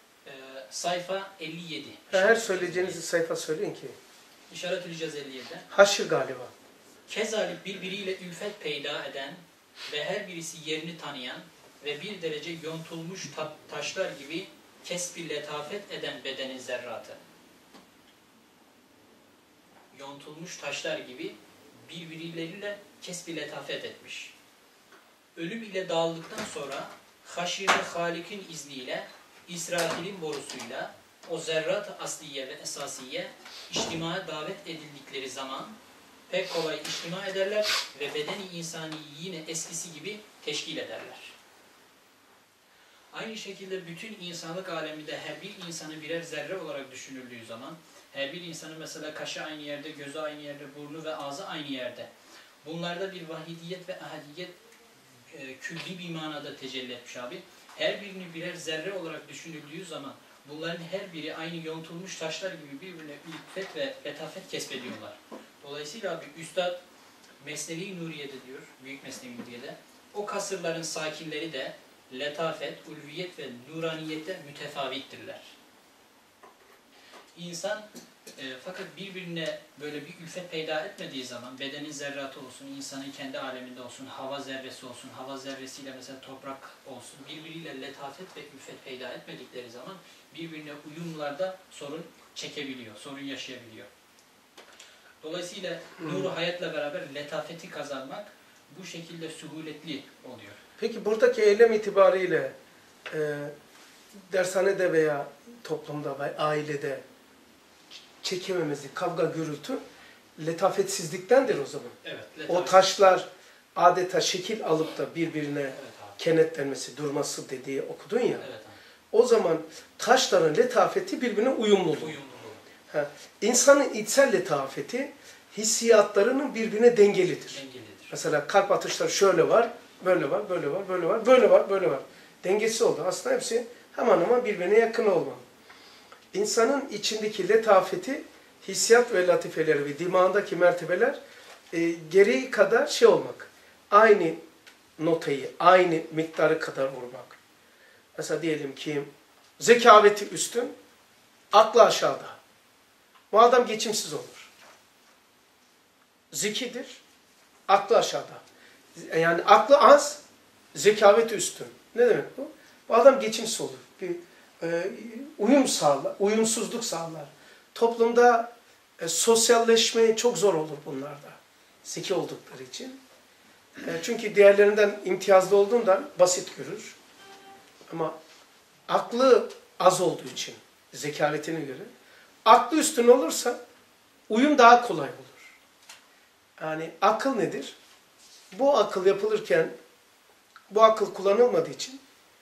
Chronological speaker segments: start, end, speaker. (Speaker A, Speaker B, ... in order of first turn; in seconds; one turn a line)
Speaker A: 0.2-3.0
Speaker B: 2.1-4.0
Speaker A: 4.5-5.7
Speaker B: 5.7-6.5
Speaker A: 7.1-17.2
Speaker A: 19.9-24.4
Speaker A: 25.4-35.8
Speaker A: 36.3-41.4
Speaker A: 43.1-52.1
Speaker A: 52.6-54.5
Speaker A: 55.3-66.8
Speaker A: 67.4-75.5
Speaker A: 77.3-93.9
Speaker A: 95.2-100.6
Speaker B: 96.0-96.3
Speaker B: 100.8-102.5
Speaker B: 103.1-103.5
Speaker B: 104.2-107.0
Speaker B: 108.2-109.8
Speaker B: 110.4-112.0
Speaker A: 111.5-113.0
Speaker B: 112.5-118.5
Speaker A: 115.7-116.2
Speaker A: 118.4-118.8
Speaker B: 119.1-122.2
Speaker A: 122.0-122.6
Speaker B: 122.9-135.4
Speaker A: 127.5-128.2
Speaker B: 136.3-141.2
Speaker B: 141.7-144.4
Speaker B: 145.0-147.4
Speaker B: 148.2-150.8
Speaker B: 151.5-152.4
Speaker B: 153.3-154.5
Speaker B: 156.3-157.0
Speaker B: 157.7-158.4
Speaker B: 158.9-160.2
Speaker B: 160.7-173.0
Speaker B: 173.8-177.0
Speaker B: 177.9-178.2
Speaker B: 178.9-181.9
Speaker B: 182.4-183.6
Speaker B: 184.3-185.6
Speaker B: 186.6-187.8
Speaker B: 188.5-189.7
Speaker B: 190.7-192.0